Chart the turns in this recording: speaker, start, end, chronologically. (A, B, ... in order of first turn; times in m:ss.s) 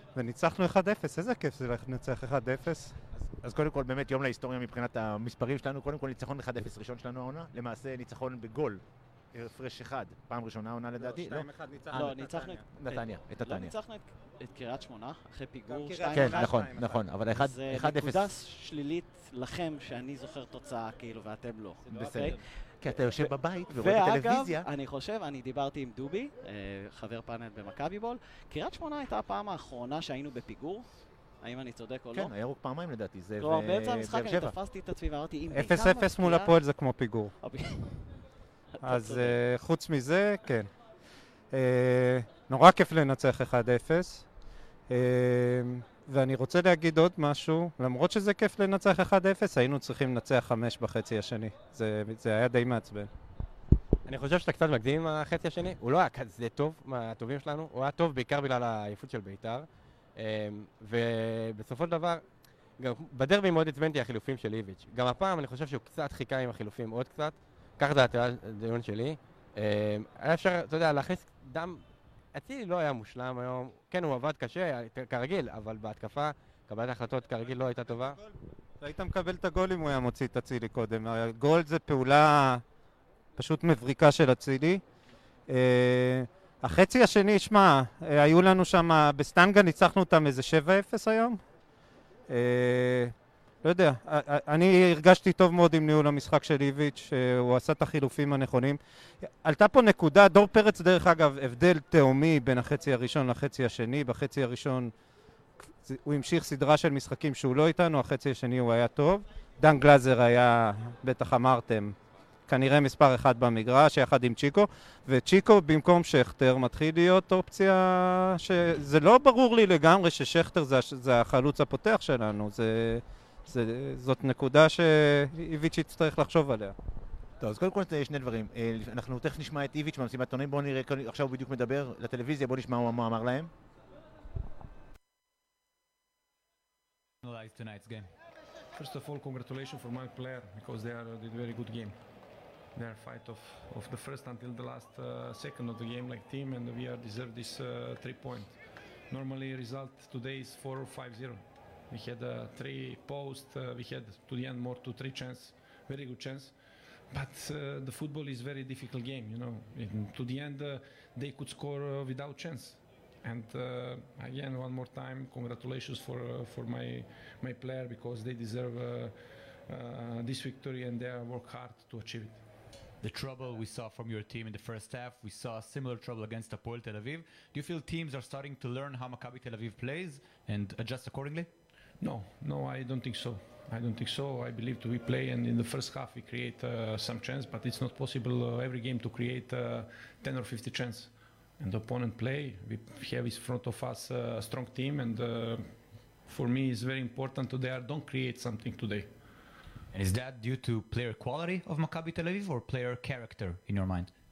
0:00.1-0:03.0 A
0:03.2-0:08.8 B
0:09.3-0:12.1 B
0:11.0-0:12.6 A
0:11.9-0:16.6 C
0:12.8-0:13.7 B
0:15.7-0:17.0 A
0:16.1-0:18.3 B
0:17.3-0:22.4 C
0:21.9-0:24.6 B
0:23.7-0:30.9 C
0:31.4-0:32.3 C
0:32.1-0:34.5 B
0:33.4-0:36.6 C
0:35.5-0:37.3 A
0:37.4-0:38.0 C
0:38.8-0:39.4 C
0:38.8-0:40.7 A
0:41.5-0:44.2 A
0:44.9-0:53.1 A
0:54.0-1:02.2 D
1:02.8-1:18.2 D
1:18.8-1:22.6 A
1:23.4-1:24.8 A
1:25.5-1:31.4 A
1:32.3-1:33.1 A
1:33.6-1:44.9 A
1:45.8-1:51.9 A
1:52.5-2:06.7 A
2:07.4-2:13.5 B
2:17.2-2:18.1 E
2:18.8-2:22.0 F
2:22.7-2:28.6 F
2:29.1-2:36.5 F
2:37.1-2:49.1 F
2:49.7-2:52.4 F
2:53.0-3:01.5 E
3:02.0-3:15.6 F
3:16.3-3:19.1 F
3:19.9-3:24.1 E